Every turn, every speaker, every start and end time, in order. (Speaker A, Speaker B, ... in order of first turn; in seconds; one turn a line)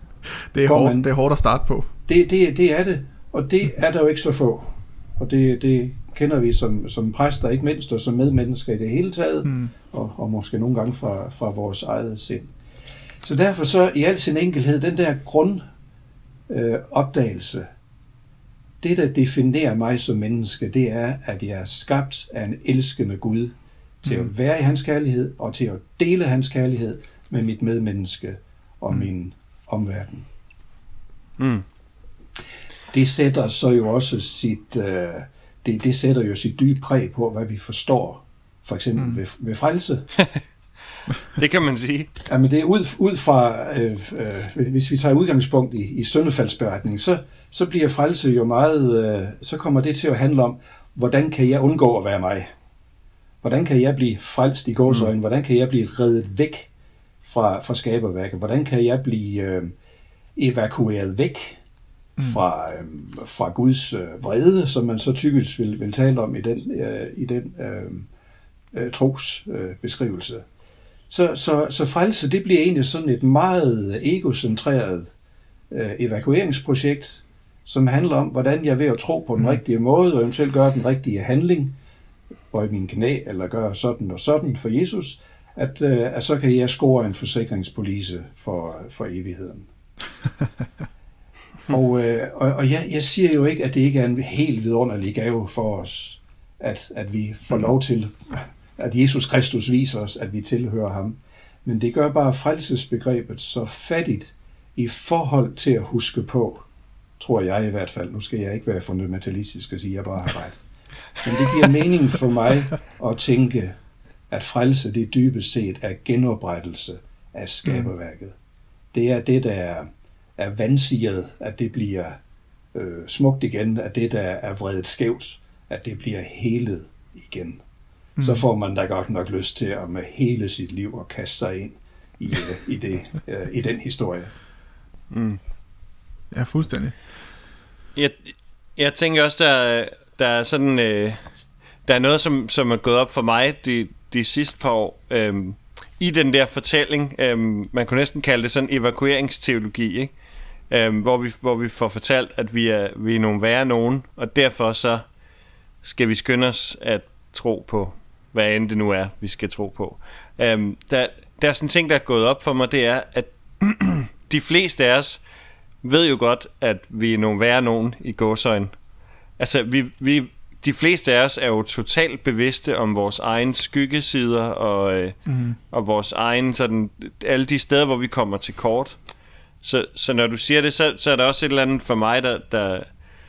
Speaker A: 0.5-1.9
Speaker B: 0.6-1.1
Speaker B: 2.1-12.5
Speaker A: 9.4-9.7
Speaker B: 13.2-15.6
Speaker B: 16.5-17.6
Speaker B: 18.8-30.3
Speaker A: 24.0-24.3
Speaker C: 31.4-31.6
Speaker B: 32.9-40.1
Speaker C: 40.1-40.4
Speaker C: 41.3-42.1
Speaker B: 42.3-52.5
Speaker B: 53.4-56.7
Speaker B: 57.2-59.7
Speaker B: 60.4-61.6
Speaker B: 62.2-68.1
Speaker B: 68.7-70.4
Speaker B: 71.1-75.1
Speaker B: 75.7-81.8
Speaker B: 82.5-89.7
Speaker B: 91.7-106.7
Speaker B: 107.2-110.6
Speaker B: 111.2-113.7
Speaker B: 114.3-118.3
Speaker B: 118.9-122.2
Speaker B: 122.7-127.6
Speaker A: 128.2-128.4
Speaker B: 128.2-134.3
Speaker C: 135.1-135.4
Speaker A: 136.3-136.9
Speaker C: 137.9-141.2
Speaker C: 141.8-150.1
Speaker C: 150.7-155.1
Speaker C: 155.8-165.2
Speaker C: 165.8-168.8
Speaker C: 169.4-179.0
Speaker A: 175.2-175.6
Speaker C: 179.6-182.9